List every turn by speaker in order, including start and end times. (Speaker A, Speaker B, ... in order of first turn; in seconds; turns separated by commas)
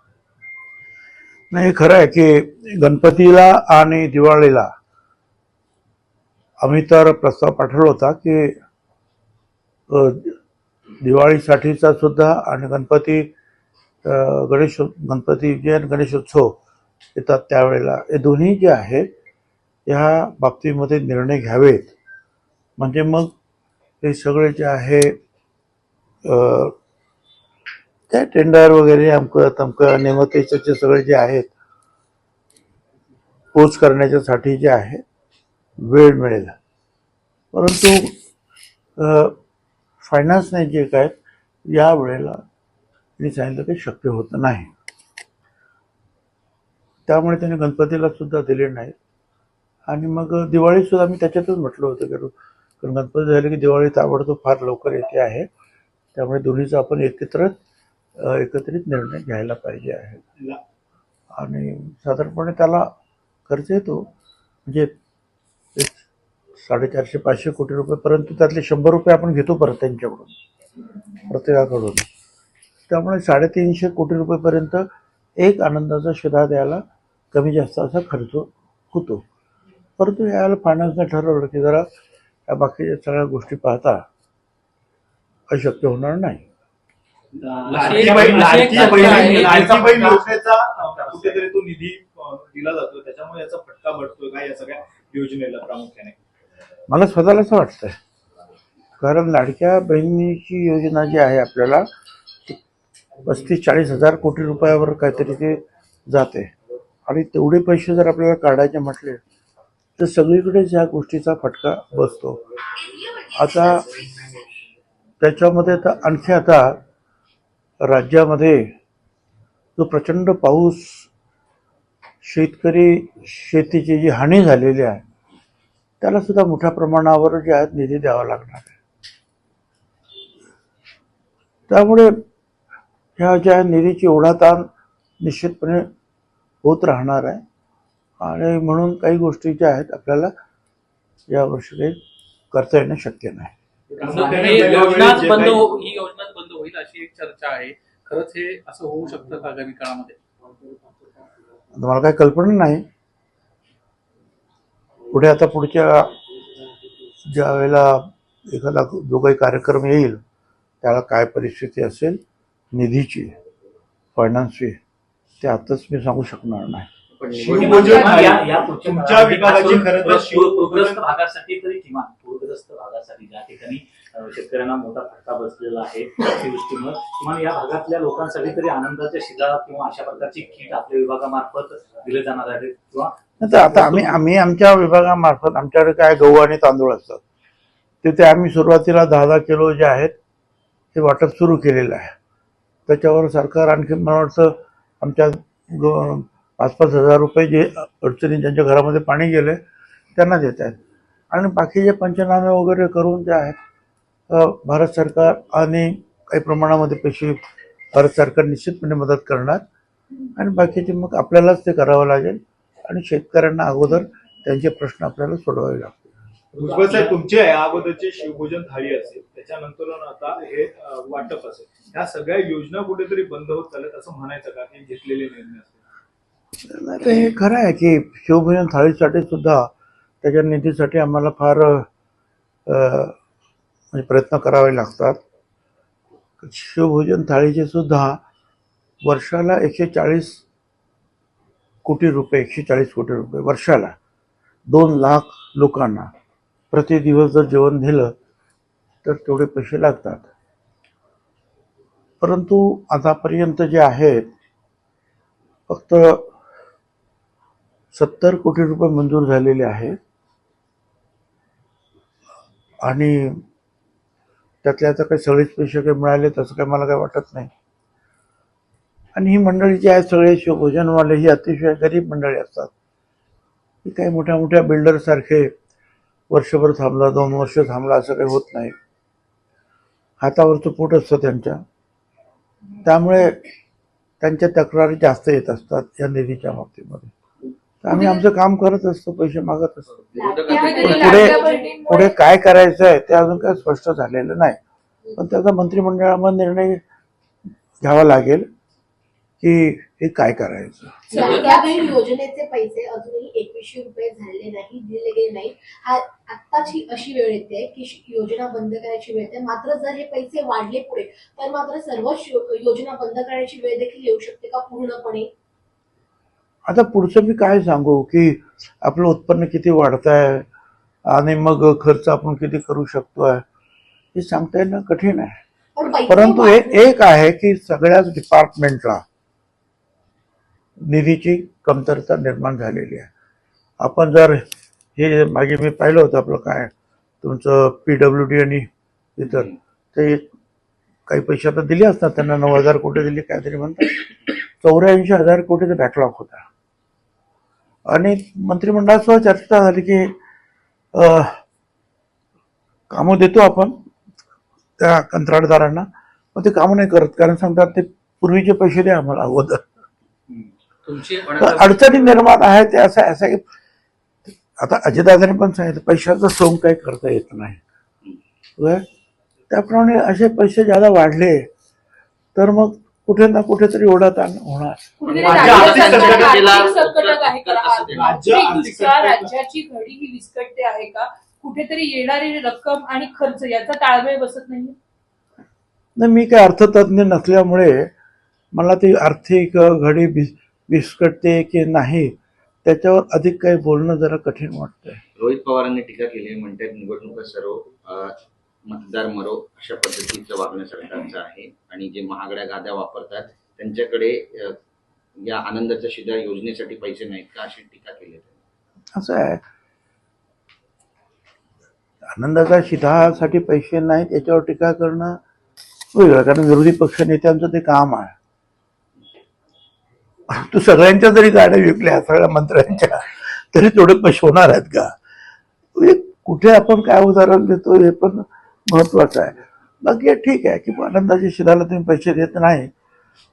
Speaker A: 1.5-4.7, Speaker A: 6.6-8.5, Speaker A: 9.9-10.4, Speaker A: 11.0-13.3, Speaker A: 14.0-16.6, Speaker A: 17.1-19.1, Speaker A: 19.9-21.9, Speaker A: 22.8-23.3, Speaker A: 24.0-25.1, Speaker A: 26.2-26.7, Speaker A: 28.1-31.5, Speaker A: 33.5-35.0, Speaker A: 35.8-36.5, Speaker A: 37.5-38.1, Speaker A: 39.0-39.4, Speaker A: 40.0-42.4, Speaker A: 43.2-44.7, Speaker A: 47.1-48.9, Speaker A: 49.9-55.5, Speaker A: 56.1-57.5, Speaker A: 58.2-60.2, Speaker A: 61.3-62.9, Speaker A: 63.5-64.1, Speaker A: 64.7-64.9, Speaker A: 66.6-70.3, Speaker A: 71.3-72.0, Speaker A: 72.9-74.9, Speaker A: 75.4-79.2, Speaker A: 80.0-81.9, Speaker A: 82.5-84.0, Speaker A: 85.5-86.4, Speaker B: 87.5-90.0, Speaker C: 87.7-96.1, Speaker D: 87.7-90.2, Speaker B: 91.0-91.4, Speaker A: 96.9-98.0, Speaker A: 99.0-101.9, Speaker A: 103.2-106.5, Speaker A: 107.1-109.2, Speaker A: 110.0-112.4, Speaker A: 113.3-113.9, Speaker A: 115.2-116.8, Speaker A: 117.8-118.7, Speaker A: 119.8-121.1, Speaker A: 122.2-125.0, Speaker A: 126.0-128.7, Speaker A: 131.7-132.2, Speaker A: 133.2-134.7, Speaker A: 135.2-135.9, Speaker A: 136.6-137.4, Speaker A: 138.2-140.3, Speaker A: 141.3-142.0, Speaker A: 142.5-143.5, Speaker C: 143.9-145.8, Speaker D: 144.0-150.2, Speaker A: 151.8-152.8, Speaker A: 155.1-156.1, Speaker A: 157.3-160.2, Speaker A: 160.8-162.2, Speaker A: 162.7-163.3, Speaker A: 164.2-164.8, Speaker A: 165.4-166.9, Speaker E: 167.2-168.2, Speaker C: 167.4-171.1, Speaker B: 167.4-183.1, Speaker A: 183.4-187.2, Speaker A: 188.0-190.1, Speaker A: 190.9-192.1, Speaker A: 192.9-199.6, Speaker A: 200.2-200.8, Speaker A: 201.3-203.6, Speaker A: 204.3-207.4, Speaker A: 207.9-209.6, Speaker A: 210.4-216.1, Speaker C: 216.5-225.8, Speaker A: 226.7-229.7, Speaker A: 230.2-231.9, Speaker A: 232.7-233.2, Speaker A: 233.9-235.2, Speaker A: 236.4-238.2, Speaker A: 239.0-240.4, Speaker A: 241.8-243.9, Speaker A: 244.7-246.1, Speaker A: 246.7-248.1, Speaker A: 249.0-250.3, Speaker A: 252.2-254.2, Speaker A: 255.7-256.3, Speaker A: 257.9-259.9, Speaker A: 262.9-263.4, Speaker A: 264.6-267.5, Speaker A: 269.1-272.7, Speaker A: 273.9-275.5, Speaker A: 276.3-278.7, Speaker A: 280.2-281.6, Speaker A: 282.8-283.4, Speaker A: 284.2-287.1, Speaker A: 287.8-289.9, Speaker F: 287.9-288.2, Speaker E: 290.1-291.4, Speaker F: 290.2-291.7, Speaker G: 290.5-292.2, Speaker A: 290.9-294.6, Speaker A: 295.2-296.8, Speaker A: 297.8-298.5, Speaker A: 299.4-301.1, Speaker F: 301.1-315.3, Speaker D: 301.1-301.9, Speaker A: 316.7-320.4, Speaker A: 321.1-323.4, Speaker A: 324.1-325.4, Speaker F: 325.8-326.9, Speaker A: 326.1-329.0, Speaker A: 330.8-333.1, Speaker A: 333.8-334.4, Speaker A: 335.0-336.7, Speaker A: 337.2-340.2, Speaker A: 341.1-344.0, Speaker A: 344.6-346.4, Speaker A: 347.9-350.1, Speaker A: 350.9-351.4, Speaker A: 352.9-353.7, Speaker A: 354.8-359.7, Speaker D: 360.9-361.7, Speaker A: 361.4-363.4, Speaker A: 364.6-367.6, Speaker A: 368.6-368.8, Speaker A: 369.5-371.4, Speaker A: 372.4-375.8, Speaker G: 375.0-384.8, Speaker E: 375.1-378.2, Speaker C: 375.2-376.6, Speaker C: 377.9-379.3, Speaker A: 386.0-387.9, Speaker A: 388.6-392.1, Speaker A: 392.6-395.0, Speaker E: 395.2-398.1, Speaker E: 398.7-404.5, Speaker E: 405.2-408.4, Speaker A: 408.9-409.4, Speaker A: 412.1-415.2, Speaker A: 415.9-418.1, Speaker A: 420.3-424.9, Speaker A: 425.8-432.7